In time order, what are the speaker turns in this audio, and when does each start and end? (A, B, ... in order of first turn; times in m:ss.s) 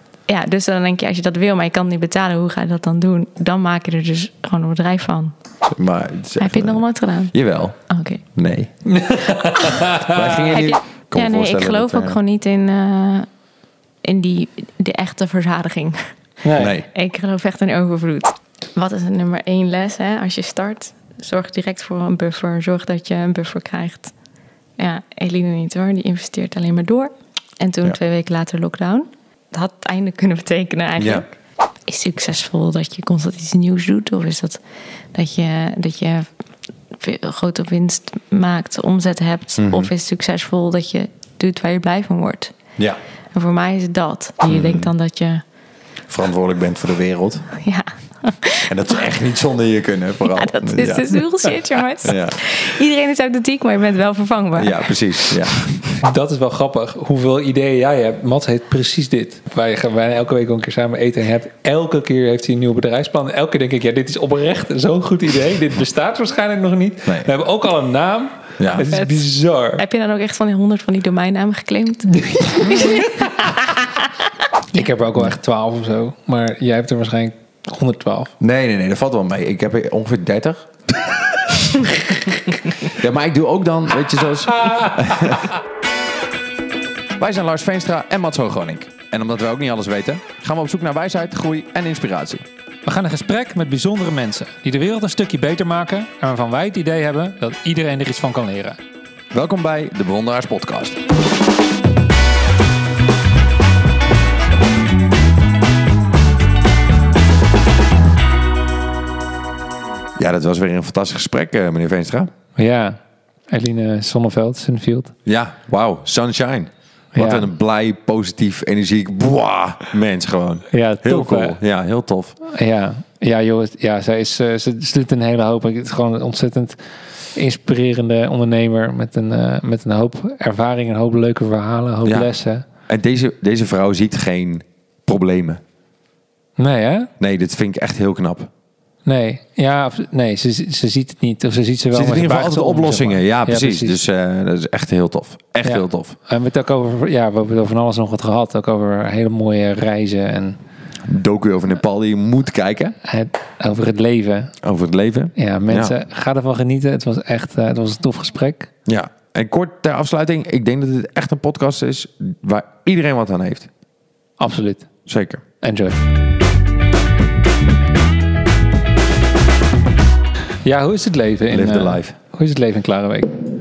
0:00.3-0:05.3 A
0:05.6-0:07.8 B
0:06.4-0:07.3 A
0:07.9-0:08.2 A
0:08.3-0:08.7 B
0:08.9-0:10.6 C
0:09.9-0:12.2 B
0:10.5-0:13.3 A
0:14.0-0:16.1 A
0:16.4-0:16.7 C
0:16.6-0:16.9 B
0:16.9-0:24.1 A
0:24.8-0:31.4 A
0:31.0-0:31.2 B
0:31.9-0:34.6 A
0:35.1-0:36.3 A
0:36.9-0:42.6 A
0:39.6-0:39.9 B
0:43.3-0:45.4 A
0:44.5-0:44.9 B
0:46.1-0:47.5 B
0:47.5-0:49.0 A
0:48.7-0:51.2 B
0:50.3-0:55.4 A
0:52.0-0:52.4 B
0:54.6-0:55.6 B
0:56.0-1:09.8 C
1:07.0-1:07.3 B
1:08.6-1:08.9 B
1:08.9-1:09.2 A
1:09.8-1:14.3 A
1:12.3-1:13.1 C
1:14.7-1:18.3 C
1:18.4-1:21.6 B
1:22.5-1:25.5 B
1:24.6-1:25.4 C
1:27.2-1:32.4 B
1:32.8-1:38.8 C
1:39.3-1:41.0 B
1:50.2-1:52.3 B
1:52.6-1:55.1 C
1:55.2-2:02.4 B
1:57.2-1:57.5 C
2:00.7-2:01.6 C
2:02.4-2:06.8 C
2:07.3-2:12.6 C
2:12.9-2:15.6 B
2:16.6-2:17.1 C
2:17.2-2:18.5 B
2:19.0-2:24.0 C
2:21.9-2:26.1 B
2:25.6-2:30.6 C
2:31.0-2:33.0 B
2:33.0-2:34.5 C
2:34.6-2:35.9 B
2:35.4-2:38.7 C
2:38.8-2:43.7 B
2:44.4-2:44.9 C
2:45.0-2:45.4 B
2:45.6-2:46.0 C
2:50.6-2:53.3 C
2:51.5-2:52.1 B